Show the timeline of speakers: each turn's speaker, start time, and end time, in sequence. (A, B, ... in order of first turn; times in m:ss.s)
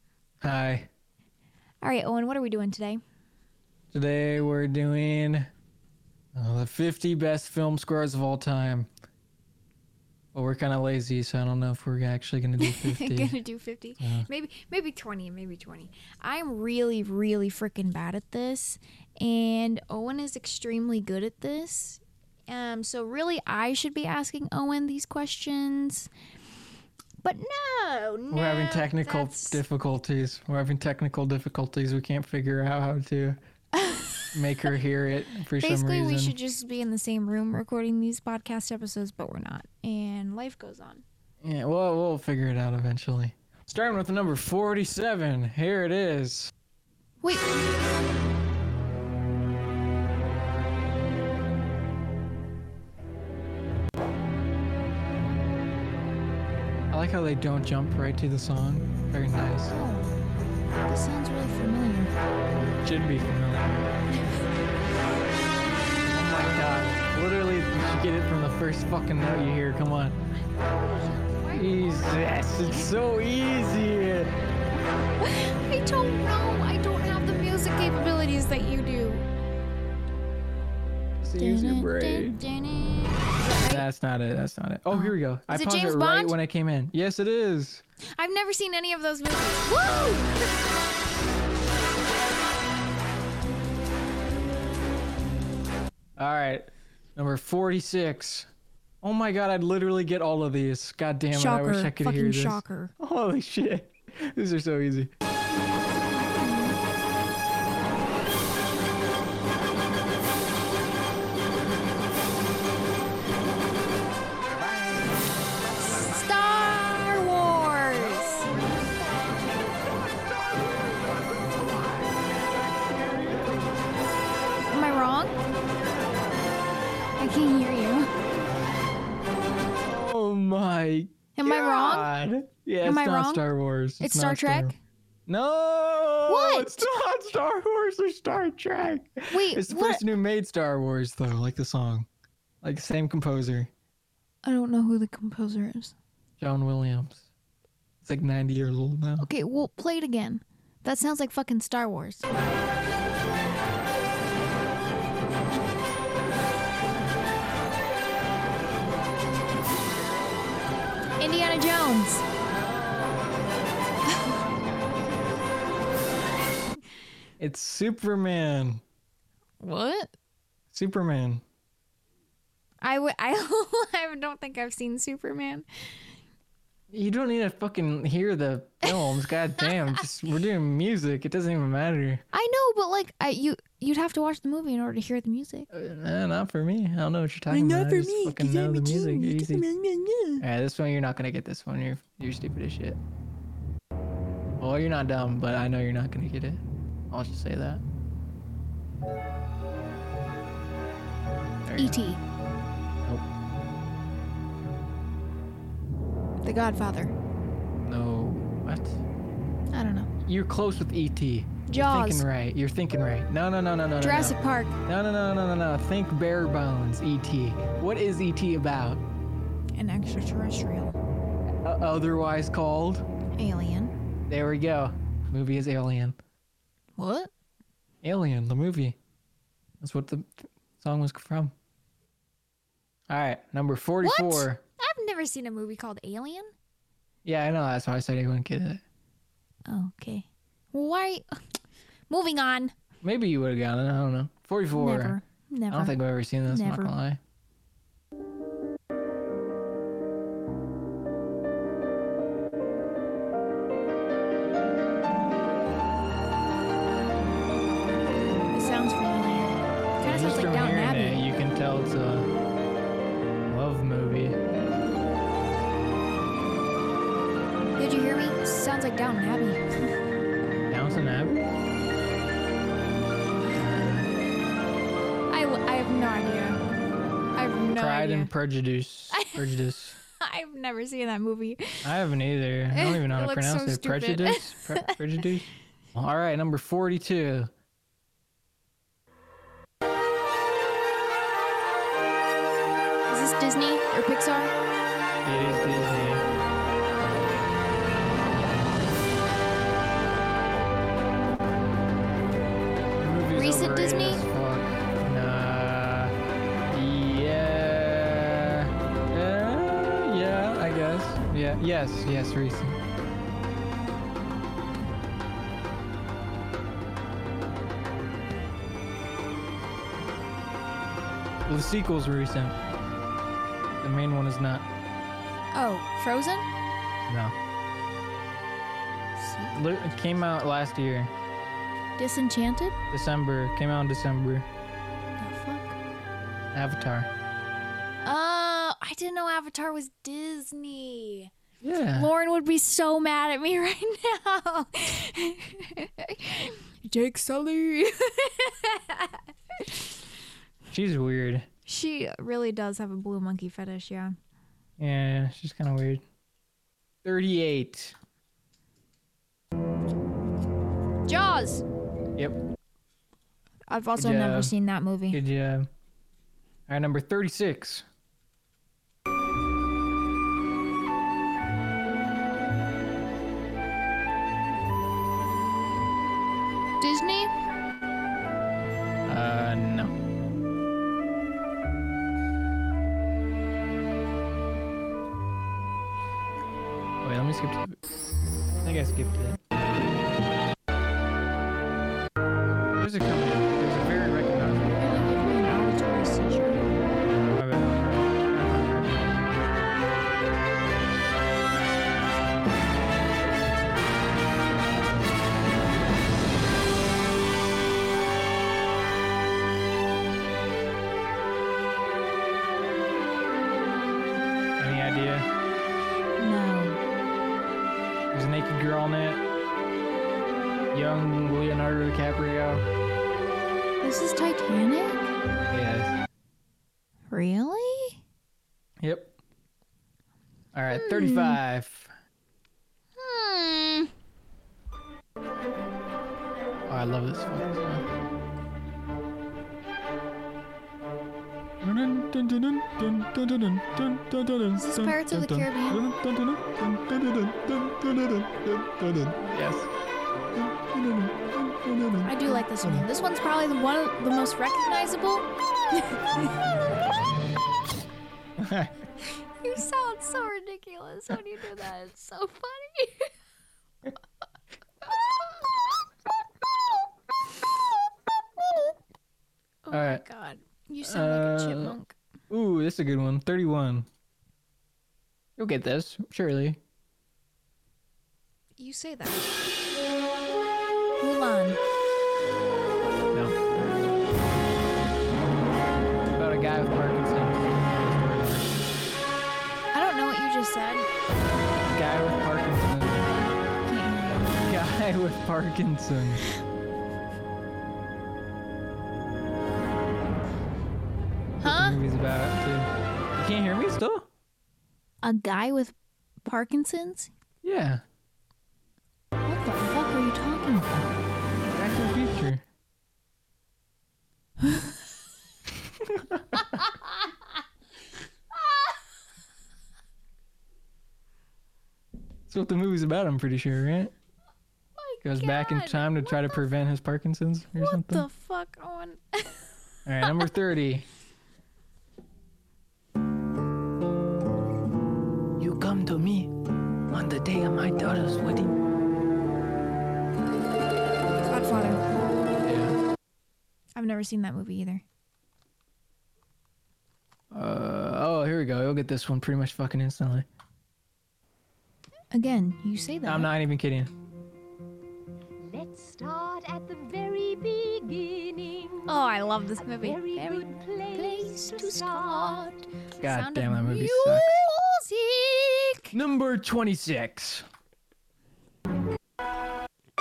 0:00.4-0:00.9 A
0:01.8-0:03.0 B
0:03.9-0:05.5 A
0:06.4-0:08.9 A
0:10.3-0:13.4 A
0:12.6-0:26.1 B
0:14.0-0:14.3 A
0:27.2-0:29.6 B
0:28.3-0:33.4 A
0:33.8-0:34.3 B
0:34.3-0:36.4 A
0:35.6-0:41.0 B
0:41.4-0:46.5 A
0:47.2-0:47.5 B
0:56.9-0:59.8 A
0:59.7-1:00.2 B
1:00.9-1:02.1 B
1:02.8-1:03.9 A
1:06.1-1:10.2 A
1:10.7-1:12.9 B
1:11.5-1:14.3 A
1:15.2-1:19.2 B
1:21.2-1:22.4 A
1:21.4-1:23.8 B
1:23.6-1:27.8 A
1:24.9-1:26.4 B
1:28.2-1:30.5 B
1:36.2-1:38.5 A
1:39.0-1:45.1 A
1:41.3-1:42.9 B
1:46.2-1:46.8 B
1:55.8-1:58.5 B
1:58.5-1:58.8 A
2:02.9-2:03.6 A
2:04.7-2:05.4 B
2:07.2-2:08.1 B
2:09.8-2:14.7 A
2:11.4-2:12.1 B
2:12.8-2:13.5 B
2:14.0-2:14.8 B
2:15.3-2:22.1 A
2:16.3-2:16.9 B
2:19.3-2:20.1 B
2:22.6-2:23.7 A
2:24.4-2:25.9 B
2:26.4-2:27.2 A
2:28.0-2:29.3 A
2:29.2-2:32.3 B
2:41.2-2:42.2 B
2:47.4-2:48.8 A
2:49.6-2:50.1 B
2:50.7-2:51.4 A
2:52.8-2:55.7 B
2:56.9-3:02.2 A
2:58.9-2:59.7 B
3:02.3-3:05.7 B
3:05.7-3:09.7 A
3:07.5-3:10.4 B
3:10.4-3:13.0 A
3:14.6-3:17.8 A
3:21.6-3:22.0 A
3:21.8-3:22.2 B
3:26.4-3:27.1 B
3:27.8-3:29.0 A
3:29.7-3:30.1 B
3:30.2-3:39.0 A
3:31.7-3:32.2 B
3:34.0-3:34.8 B
3:39.8-3:41.0 B
3:41.6-3:43.1 A
3:43.4-3:43.9 B
3:44.3-3:46.2 A
3:47.0-3:47.3 B
3:48.0-3:49.0 A
3:49.8-3:51.5 A
3:53.1-3:54.6 A
3:54.0-3:56.5 B
3:57.2-3:58.8 A
3:59.7-4:01.2 B
4:02.1-4:02.7 B
4:03.0-4:05.2 A
4:04.8-4:06.0 B
4:05.7-4:07.2 A
4:06.5-4:06.9 B
4:18.5-4:21.2 B
4:20.0-4:22.3 A
4:23.5-4:24.4 A
4:27.8-4:29.7 B
4:30.7-4:31.5 A
4:33.5-4:34.1 A
4:35.3-4:36.6 B
4:37.4-4:38.3 B
4:37.8-4:40.0 A
4:39.1-4:39.4 B
4:40.1-4:41.9 B
4:41.8-4:47.5 A
4:42.7-4:45.0 B
4:53.1-4:54.5 B
4:55.2-4:56.2 A
5:03.0-5:06.2 A
5:03.4-5:04.2 B
5:06.7-5:12.8 A
5:21.5-5:22.6 A
5:23.8-5:24.7 A
5:25.5-5:26.5 B
5:27.1-5:27.4 A
5:29.2-5:29.6 B
5:29.5-5:31.1 A
5:32.0-5:32.8 B
5:32.9-5:34.5 A
5:35.2-5:35.8 B
5:36.5-5:37.1 A
5:38.0-5:41.3 B
5:41.6-5:42.1 A
5:41.9-5:49.8 B
5:50.7-5:51.5 A
5:51.7-5:54.2 B
5:54.8-5:56.0 A
5:57.0-5:58.0 A
6:01.1-6:01.6 B
6:03.7-6:05.2 B
6:04.0-6:04.5 A
6:05.1-6:05.7 A
6:06.7-6:07.9 A
6:16.8-6:17.3 B
6:19.1-6:20.0 A
6:27.0-6:27.8 A
6:28.6-6:29.4 A
6:32.8-6:35.1 A
6:34.8-6:36.8 B
6:37.3-6:39.2 A
6:54.6-6:55.3 A
6:56.2-6:56.8 B
6:58.1-6:59.2 A
7:00.7-7:02.7 A
7:03.8-7:05.1 B
7:05.5-7:06.0 A
7:07.1-7:08.0 B
7:08.8-7:09.2 A
7:10.5-7:11.9 A
7:10.7-7:11.4 B
7:13.0-7:13.9 B
7:16.7-7:17.9 A
7:21.6-7:29.7 A
7:24.6-7:25.8 B
7:30.4-7:32.8 A
7:32.0-7:36.4 B
7:38.4-7:38.8 A
7:39.4-7:43.1 B
7:49.7-7:52.0 B
7:49.7-7:50.0 A
7:50.8-7:51.8 A
7:52.3-7:53.9 A
7:55.4-7:56.6 A
7:58.6-7:59.4 B
8:01.0-8:01.6 B
8:03.1-8:03.4 A
8:06.2-8:08.6 A
8:09.7-8:10.9 B
8:11.6-8:13.1 A
8:13.7-8:14.4 B
8:14.4-8:16.2 A
8:21.4-8:21.8 B
8:21.4-8:24.1 A
8:25.0-8:25.7 B
8:26.2-8:27.1 B
8:27.4-8:27.8 A
8:29.2-8:30.9 B
8:31.5-8:32.4 A
8:34.4-8:34.7 B
8:35.6-8:36.6 A
8:42.3-8:43.9 A
8:44.8-8:46.4 B
8:45.0-8:48.1 A
8:47.6-8:49.4 B
8:49.8-8:50.9 A
8:50.0-8:50.3 B
8:55.4-8:56.3 A
8:56.9-8:58.6 A
9:01.2-9:01.8 B
9:02.4-9:02.8 A
9:03.8-9:04.8 B
9:07.3-9:10.3 A
9:12.1-9:13.3 B
9:13.0-9:13.9 A
9:15.4-9:19.0 C
9:18.9-9:26.0 B
9:19.6-9:22.6 C
9:23.0-9:24.4 A
9:25.9-9:27.5 A